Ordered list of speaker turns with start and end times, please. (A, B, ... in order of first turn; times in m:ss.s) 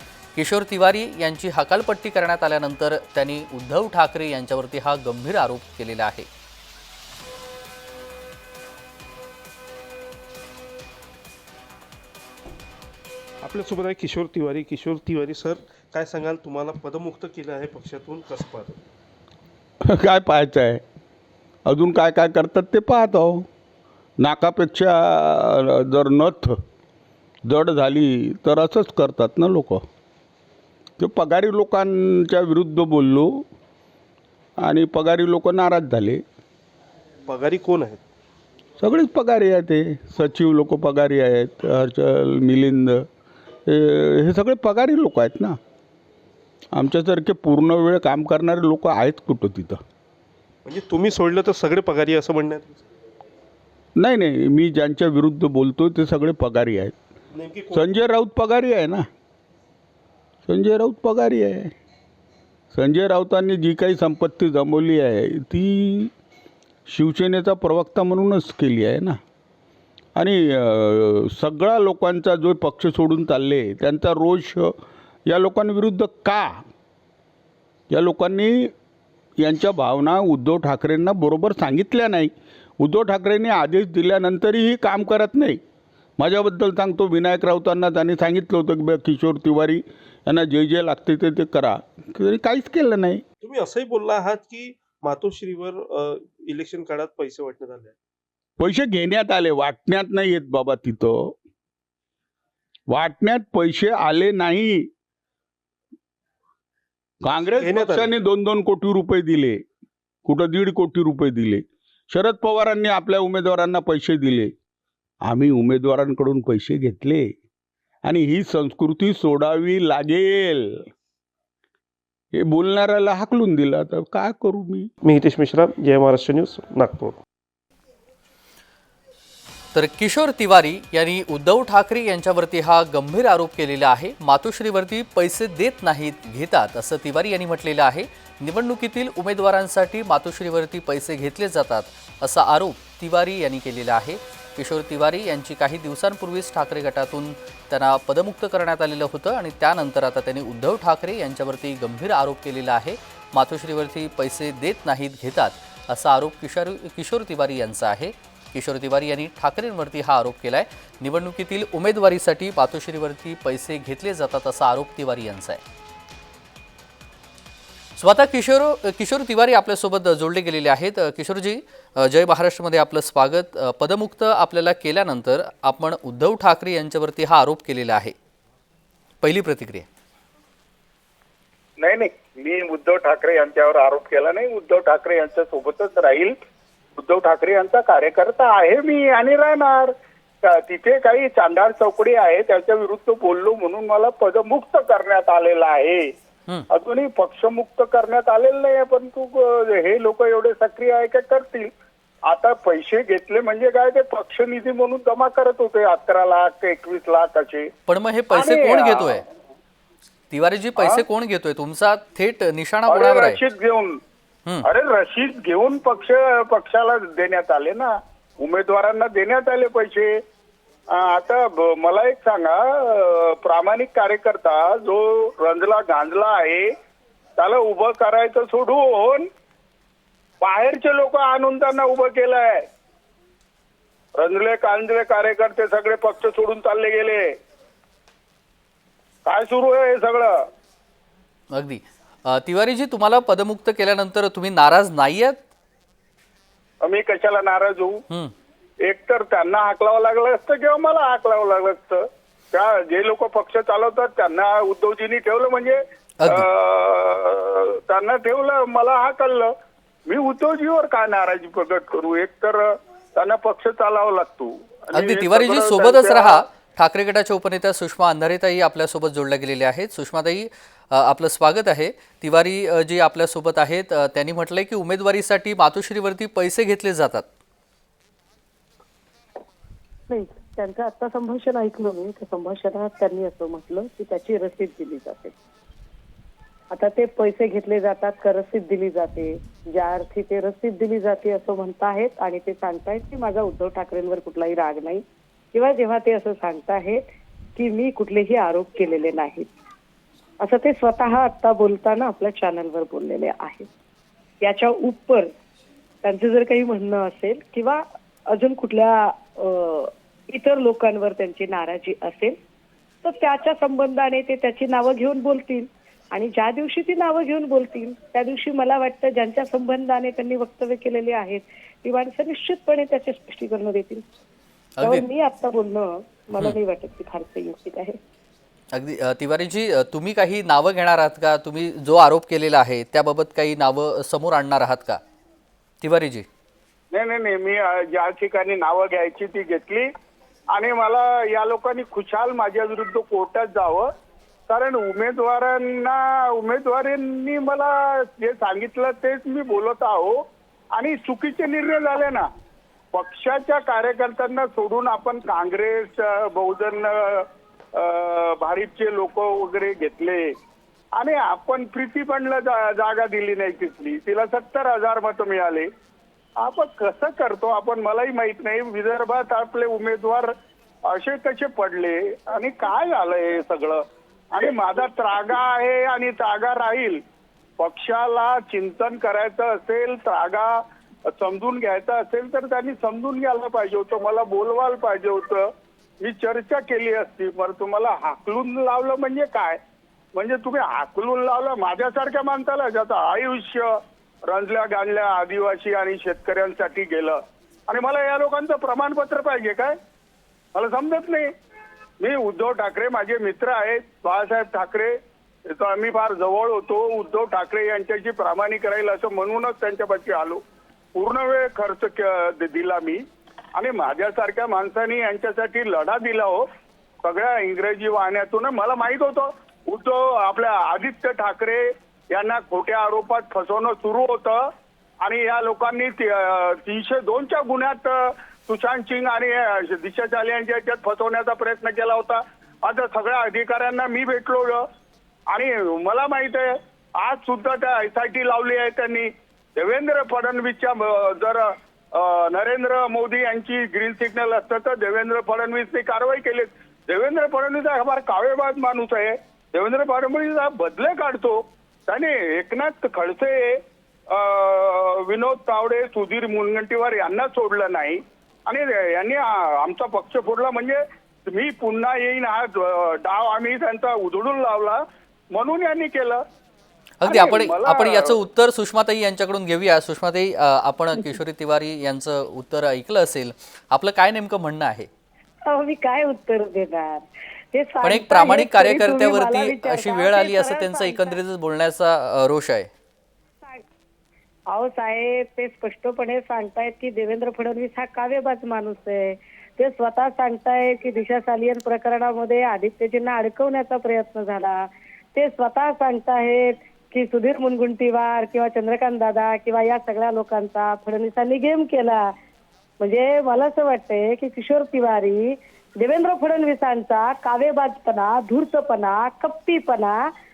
0:00.4-0:06.3 A
0:13.4-0:18.8 B
0:19.8-0:20.8 C
0:21.6-0:23.5 C
0:24.2-0:26.6 C
0:27.4-0:29.8 C
0:31.0-0:33.4 C
0:34.6-0:36.2 C
0:37.2-0:38.0 B
0:38.8-0:43.1 C
0:43.7-0:45.6 C
0:46.7-0:49.8 C
0:50.6-0:52.8 B
0:54.0-0:57.0 C
0:57.3-0:57.9 B
0:57.7-0:59.0 C
1:00.5-1:01.7 C
1:02.7-1:06.1 C
1:06.9-1:09.2 C
1:10.2-1:14.7 C
1:15.2-1:16.6 C
1:17.9-1:18.7 C
1:19.4-1:25.6 C
1:26.2-1:33.2 C
1:33.4-1:38.0 B
1:38.6-1:41.3 C
1:42.9-1:44.8 C
1:47.2-1:49.6 C
1:47.6-1:48.1 B
1:50.2-1:54.5 C
1:55.2-1:57.3 C
1:58.0-2:00.8 C
2:02.3-2:04.9 C
2:05.0-2:07.2 B
2:09.7-2:45.6 A
2:48.0-2:58.1 A
2:59.2-2:59.9 A
3:01.8-3:06.4 D
3:07.0-3:09.9 D
3:10.4-3:16.1 D
3:16.7-3:21.7 D
3:22.3-3:27.7 D
3:27.9-3:29.2 A
3:28.3-3:29.2 D
3:30.3-3:33.4 A
3:30.8-3:31.0 D
3:32.9-3:34.0 D
3:34.6-3:40.1 D
3:40.9-3:46.7 D
3:47.4-3:49.3 D
3:50.4-3:52.6 D
3:54.2-3:57.3 D
3:59.2-4:00.3 D
4:01.5-4:05.4 A
4:06.8-4:08.0 D
4:08.8-4:19.5 D
4:16.2-4:16.4 A
4:20.1-4:26.4 D
4:24.9-4:37.2 A
4:40.1-4:45.3 E
4:46.7-4:55.0 E
4:55.5-4:57.0 E
4:57.6-4:59.5 E
5:00.4-5:03.7 E
5:04.4-5:05.3 E
5:06.0-5:12.4 E
5:13.0-5:24.0 E
5:24.8-5:25.0 A
5:24.8-5:28.0 E
5:28.7-5:35.0 A
5:35.8-5:36.2 A
5:36.9-5:39.9 D
5:40.5-5:43.9 D
5:44.5-5:50.2 D
5:50.8-5:52.3 D
5:52.9-6:00.3 D
6:01.0-6:05.7 D
6:06.4-6:10.3 D
6:10.9-6:13.8 D
6:14.3-6:17.0 D
6:17.6-6:20.6 D
6:21.1-6:25.5 D
6:26.0-6:29.6 D
6:30.1-6:33.7 D
6:34.3-6:39.8 D
6:40.5-6:41.3 D
6:42.0-6:45.0 D
6:45.5-6:50.4 D
6:51.0-6:53.0 D
6:53.6-6:56.4 D
6:57.0-7:04.4 D
7:05.0-7:14.6 D
7:15.3-7:33.6 D
7:34.1-7:44.8 D
7:45.3-7:46.2 D
7:47.0-7:54.9 A
7:47.0-7:48.2 D
7:55.5-8:01.2 E
7:57.8-8:02.7 A
8:04.5-8:14.6 E
8:15.1-8:22.0 E
8:22.8-8:30.0 E